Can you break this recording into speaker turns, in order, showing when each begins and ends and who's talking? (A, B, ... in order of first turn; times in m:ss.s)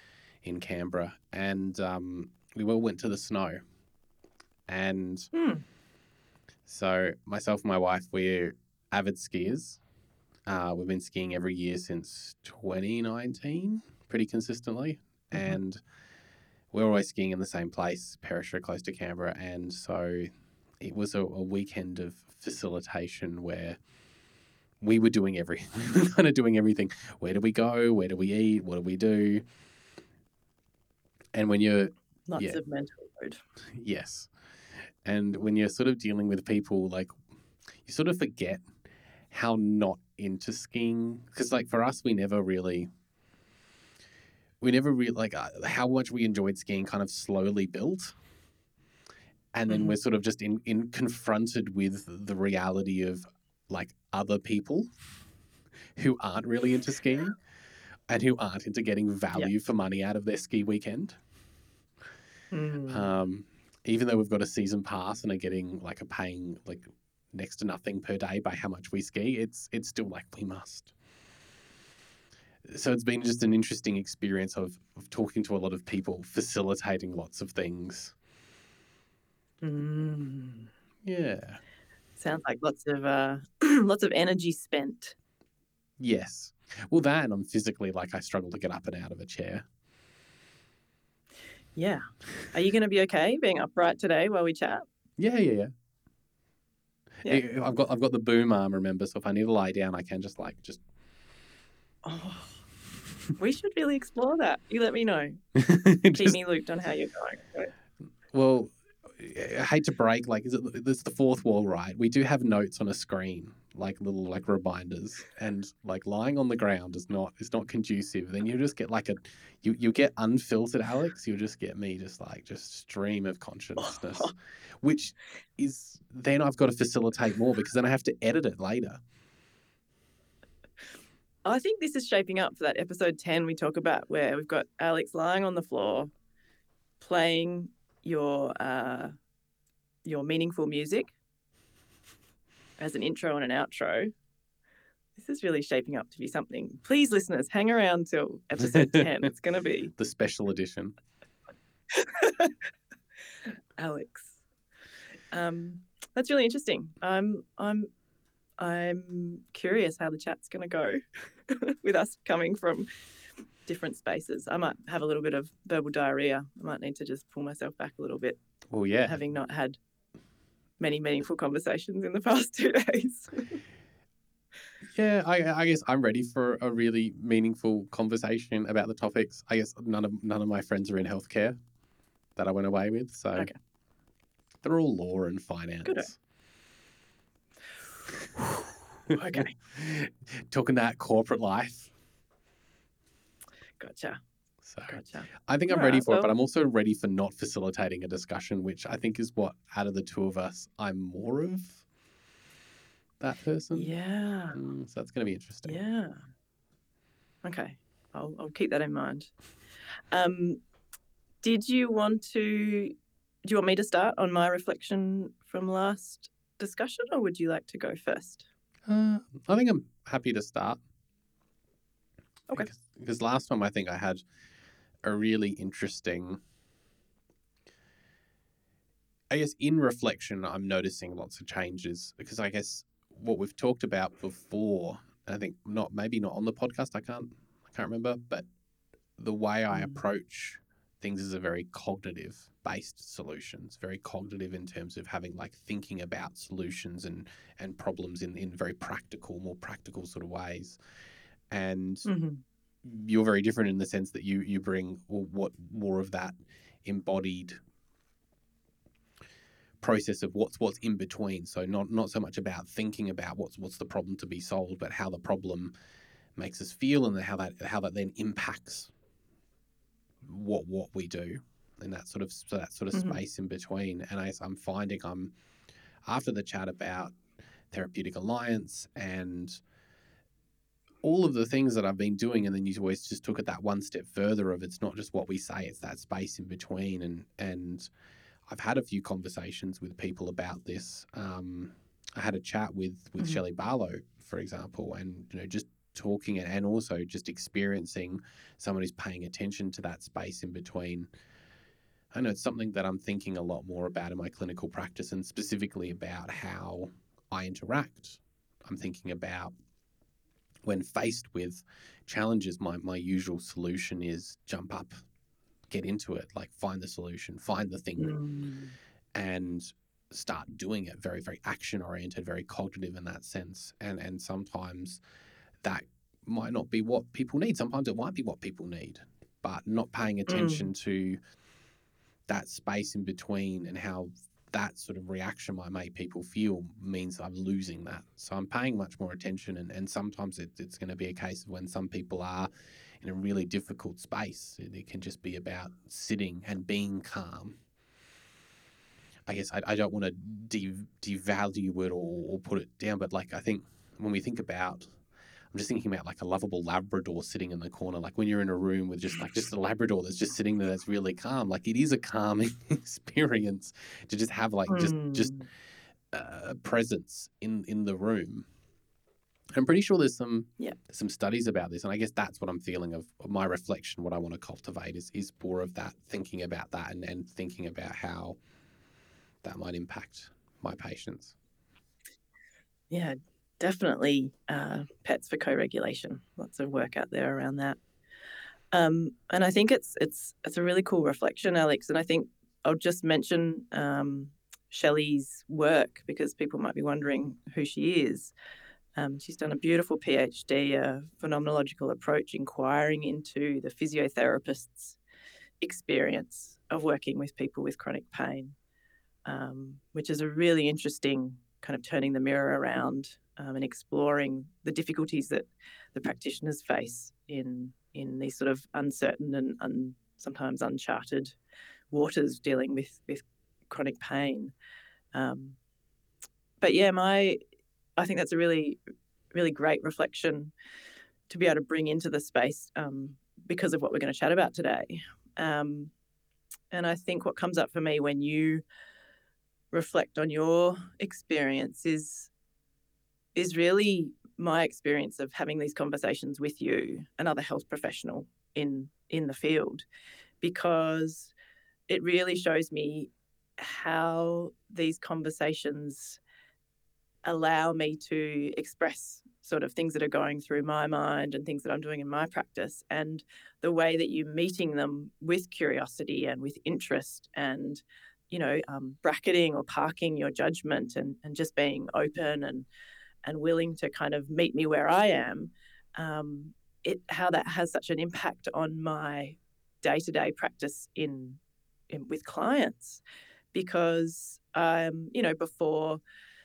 0:00.4-0:03.6 A
0:04.7-0:05.3 A
0:05.3-0:05.6 B
0:06.7-0:09.8 A
0:10.5-0:15.8 A
0:16.7-0:23.8 A
0:24.8-0:29.4 A
0:31.3-0:32.6 A
0:32.3-0:33.4 B
0:33.8-0:34.3 A
0:35.0-0:37.1 A
0:37.8-0:38.6 A
0:39.3-0:42.9 A
0:44.6-0:48.2 A
0:49.5-0:54.9 A
0:49.7-0:50.0 B
0:56.0-0:57.4 A
0:58.1-1:01.2 A
1:02.5-1:03.1 B
1:02.9-1:10.9 A
1:12.6-1:18.2 A
1:19.6-1:20.7 B
1:21.0-1:21.6 A
1:22.2-1:25.2 B
1:26.0-1:29.7 A
1:31.8-1:34.8 B
1:35.2-1:35.7 A
1:37.2-1:40.8 A
1:42.0-1:42.6 B
1:43.4-1:45.4 B
1:45.6-1:46.4 A
1:46.1-1:47.7 B
1:48.3-2:09.0 A
2:03.8-2:04.3 B
2:11.4-2:16.1 B
2:17.0-2:19.1 B
2:20.0-2:21.1 B
2:22.8-2:24.1 B
2:25.2-2:29.9 B
2:28.6-2:29.3 A
2:30.0-2:31.0 A
2:31.9-2:32.6 B
2:33.8-2:34.4 B
2:35.3-2:37.9 B
2:38.6-2:42.9 B
2:43.7-2:48.4 B
2:48.7-2:49.2 A
2:49.1-2:49.8 B
2:50.8-2:53.6 B
2:54.9-3:01.6 A
3:02.4-3:03.5 A
3:04.6-3:06.2 A
3:08.4-3:11.9 A
3:09.1-3:09.5 B
3:13.8-3:14.2 B
3:14.6-3:21.8 A
3:14.9-3:16.3 B
3:23.2-3:23.9 A
3:23.7-3:24.6 B
3:24.5-3:25.8 A
3:25.6-3:26.2 B
3:27.4-3:29.3 B
3:30.1-3:30.6 B
3:31.4-3:32.9 B
3:33.4-3:38.4 B
3:38.9-3:40.8 A
3:42.5-3:44.2 A
3:45.0-3:46.4 A
3:49.3-3:58.5 A
3:59.2-4:10.8 A
3:59.7-4:00.0 B
4:11.5-4:12.1 A
4:12.0-4:12.4 B
4:12.8-4:17.6 A
4:19.8-4:25.7 A
4:26.4-4:28.9 A
4:30.2-4:35.3 A
4:32.9-4:33.2 B
4:36.1-4:37.2 A
4:37.7-4:39.6 A
4:41.0-4:47.9 A
4:48.5-5:01.1 A
5:02.1-5:09.5 A
5:10.6-5:14.9 A
5:15.7-5:18.2 A
5:18.0-5:18.8 B
5:19.2-5:25.0 A
5:25.6-5:31.2 A
5:30.3-5:30.7 B
5:32.3-5:42.5 A
5:43.0-5:47.6 A
5:49.3-5:54.9 A
5:55.5-6:05.3 A
6:04.7-6:05.5 B
6:06.1-6:08.5 A
6:09.6-6:18.4 A
6:19.4-6:21.4 A
6:22.9-6:27.8 B
6:28.7-6:38.3 B
6:39.0-6:45.0 B
6:45.6-6:48.6 B
6:49.2-7:01.4 B
7:01.9-7:04.5 B
7:05.1-7:05.6 B
7:06.6-7:07.4 B
7:08.0-7:08.8 B
7:09.3-7:10.5 B
7:11.3-7:15.9 B
7:16.7-7:18.6 B
7:19.7-7:22.3 B
7:23.4-7:29.8 B
7:30.4-7:31.3 B
7:31.9-7:36.2 B
7:37.2-7:52.7 B
7:53.2-8:01.4 B
8:01.9-8:03.0 B
8:03.5-8:06.0 B